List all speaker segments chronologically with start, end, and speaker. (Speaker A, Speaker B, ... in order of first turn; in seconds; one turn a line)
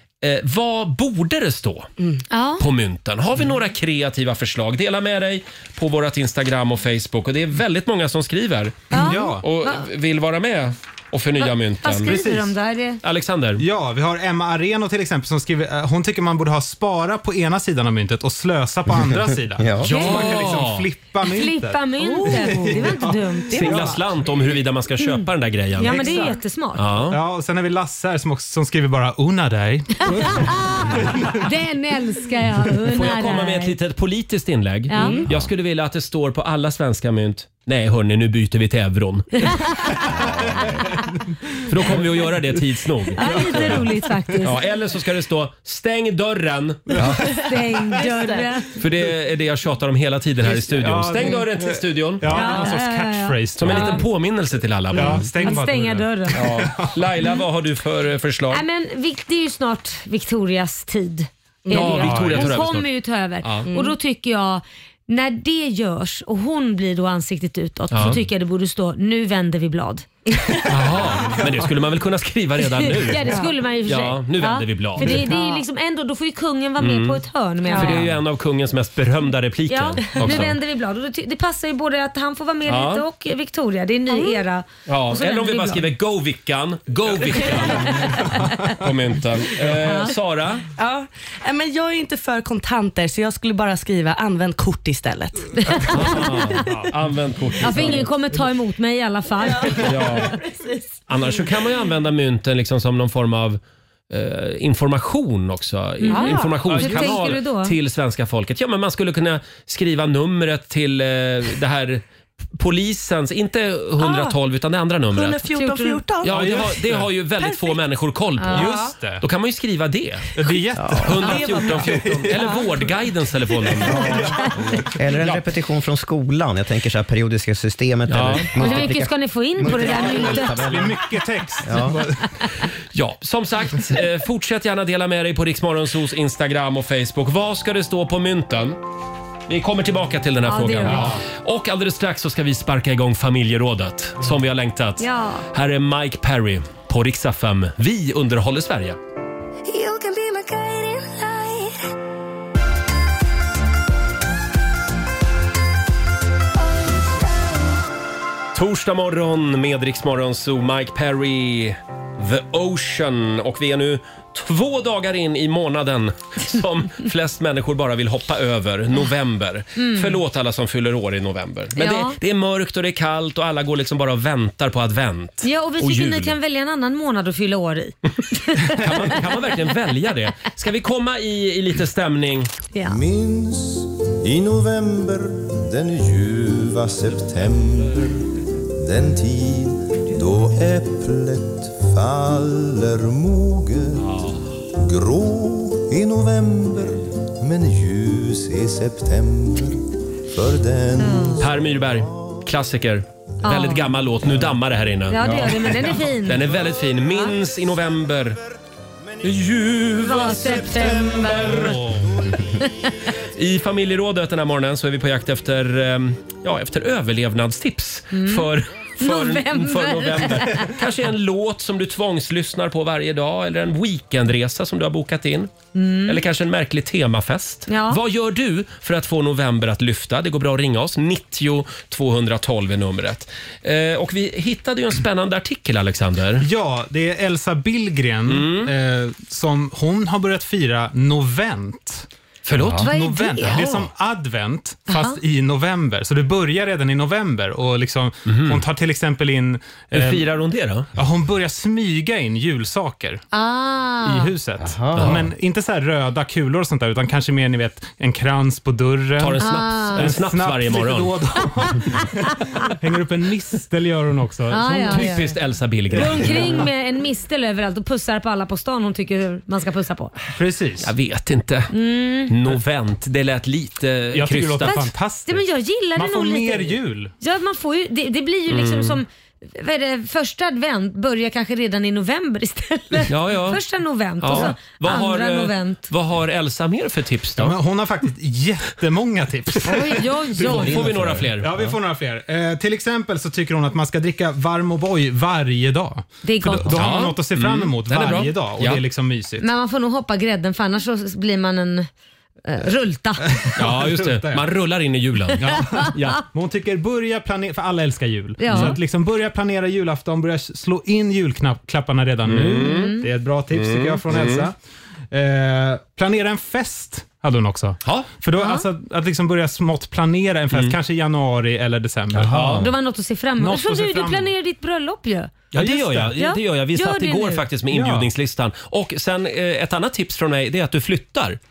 Speaker A: 0.2-1.9
Speaker B: 2.3-2.6
Speaker A: 2.6-12.2
Speaker C: 8.9-9.5
Speaker B: 8.9-9.8
Speaker B: 11.4-13.0
Speaker C: 12.1-12.5
Speaker A: 13.0-13.6
Speaker C: 13.6-24.1
Speaker D: 19.6-20.2
Speaker A: 19.8-20.9
Speaker B: 19.9-20.2
Speaker B: 21.2-23.9
Speaker E: 22.0-22.8
Speaker A: 23.5-27.2
Speaker B: 25.8-26.9
Speaker C: 25.8-26.4
Speaker C: 27.1-31.4
Speaker B: 30.1-33.8
Speaker A: 32.9-39.5
Speaker B: 34.9-35.2
Speaker E: 34.9-35.3
Speaker B: 39.4-40.1
Speaker A: 41.7-43.9
Speaker B: 43.2-44.6
Speaker C: 43.2-43.9
Speaker A: 44.4-47.1
Speaker B: 47.4-48.7
Speaker E: 47.9-48.5
Speaker A: 48.8-52.5
Speaker C: 50.4-54.0
Speaker B: 52.3-54.0
Speaker E: 52.3-52.7
Speaker A: 53.6-55.3
Speaker C: 54.9-57.1
Speaker B: 55.4-56.5
Speaker A: 56.3-58.6
Speaker B: 58.5-70.1
Speaker E: 61.7-61.9
Speaker A: 61.7-62.9
Speaker C: 61.9-62.6
Speaker A: 63.4-63.7
Speaker E: 63.7-64.0
Speaker A: 67.9-68.2
Speaker E: 70.4-70.7
Speaker A: 70.7-75.3
Speaker B: 72.8-78.1
Speaker E: 75.0-75.6
Speaker A: 76.8-80.6
Speaker E: 77.7-78.1
Speaker B: 79.7-85.9
Speaker A: 82.7-83.0
Speaker E: 84.1-84.4
Speaker A: 84.9-90.7
Speaker C: 87.8-88.7
Speaker B: 88.0-88.4
Speaker B: 89.8-90.1
Speaker E: 90.8-95.9
Speaker B: 95.6-96.3
Speaker A: 95.9-98.0
Speaker C: 96.6-96.9
Speaker B: 97.6-99.9
Speaker E: 99.4-101.4
Speaker A: 99.8-100.4
Speaker A: 101.1-112.0
Speaker B: 106.0-107.7
Speaker E: 106.1-106.8
Speaker C: 106.7-107.1
Speaker A: 112.5-115.5
Speaker E: 114.0-114.4
Speaker E: 115.1-116.7
Speaker B: 115.5-116.0
Speaker A: 116.2-120.3
Speaker C: 116.3-117.1
Speaker E: 117.4-117.8
Speaker B: 118.4-118.7
Speaker C: 118.5-119.2
Speaker C: 120.3-122.4
Speaker D: 120.8-121.1
Speaker A: 121.0-124.2
Speaker E: 121.3-122.7
Speaker C: 123.7-124.5
Speaker D: 124.9-131.0
Speaker A: 128.1-128.5
Speaker B: 128.6-130.7
Speaker C: 129.7-132.5
Speaker D: 131.6-132.0
Speaker A: 132.9-138.8
Speaker A: 139.5-149.0
Speaker B: 140.5-141.1
Speaker C: 140.9-141.2
Speaker B: 145.0-145.4
Speaker F: 149.7-151.8
Speaker A: 158.5-176.3
Speaker B: 169.8-170.2
Speaker B: 171.8-172.2
Speaker B: 175.4-178.9
Speaker A: 178.7-182.5
Speaker B: 182.7-183.0
Speaker G: 182.8-188.2
Speaker G: 188.8-194.1
Speaker A: 194.0-194.3
Speaker G: 194.7-202.4
Speaker B: 201.0-201.4
Speaker A: 201.4-208.4
Speaker B: 203.4-203.9
Speaker B: 205.1-206.6
Speaker D: 205.2-205.5
Speaker C: 205.6-205.9
Speaker A: 209.2-211.8
Speaker B: 210.0-211.8
Speaker C: 211.4-212.2
Speaker B: 212.6-212.9
Speaker A: 213.3-225.5
Speaker B: 218.1-220.7
Speaker B: 225.8-226.2
Speaker A: 226.1-236.4
Speaker B: 227.7-228.0
Speaker C: 236.4-242.1
Speaker A: 238.3-238.7
Speaker A: 242.5-242.9
Speaker C: 242.8-250.3
Speaker B: 242.8-243.6
Speaker A: 243.4-243.9
Speaker B: 244.9-245.2
Speaker A: 248.3-248.6
Speaker A: 249.9-250.9
Speaker C: 251.0-253.2
Speaker B: 253.3-254.3
Speaker C: 254.0-265.2
Speaker D: 254.6-255.2
Speaker A: 254.9-255.2
Speaker A: 259.2-261.2
Speaker B: 259.4-260.1
Speaker B: 264.5-265.3
Speaker A: 264.9-266.6
Speaker B: 265.9-270.1
Speaker C: 265.9-266.7
Speaker C: 270.4-270.9
Speaker A: 270.8-271.7
Speaker B: 271.7-272.3
Speaker A: 272.3-274.8
Speaker C: 274.1-275.4
Speaker B: 274.6-285.9
Speaker C: 275.9-277.1
Speaker A: 278.5-279.0
Speaker A: 283.1-283.6
Speaker A: 284.2-287.6
Speaker C: 287.4-290.8
Speaker B: 289.6-290.9
Speaker A: 290.4-291.5
Speaker D: 290.4-291.7
Speaker C: 291.4-299.5
Speaker B: 296.2-297.1
Speaker A: 296.6-298.8
Speaker B: 299.4-301.9
Speaker B: 302.4-303.3
Speaker C: 303.3-304.4
Speaker A: 303.6-306.2
Speaker C: 305.4-314.6
Speaker B: 308.4-308.8
Speaker A: 308.5-308.8
Speaker A: 312.3-313.0
Speaker B: 312.5-313.1
Speaker A: 313.5-314.5
Speaker C: 315.1-322.6
Speaker A: 317.9-318.1
Speaker B: 318.4-318.7
Speaker D: 322.1-322.7
Speaker A: 322.3-322.7
Speaker B: 322.6-325.3
Speaker C: 323.4-324.3
Speaker A: 325.5-331.4
Speaker C: 325.6-326.2
Speaker B: 326.2-327.4
Speaker C: 327.7-328.1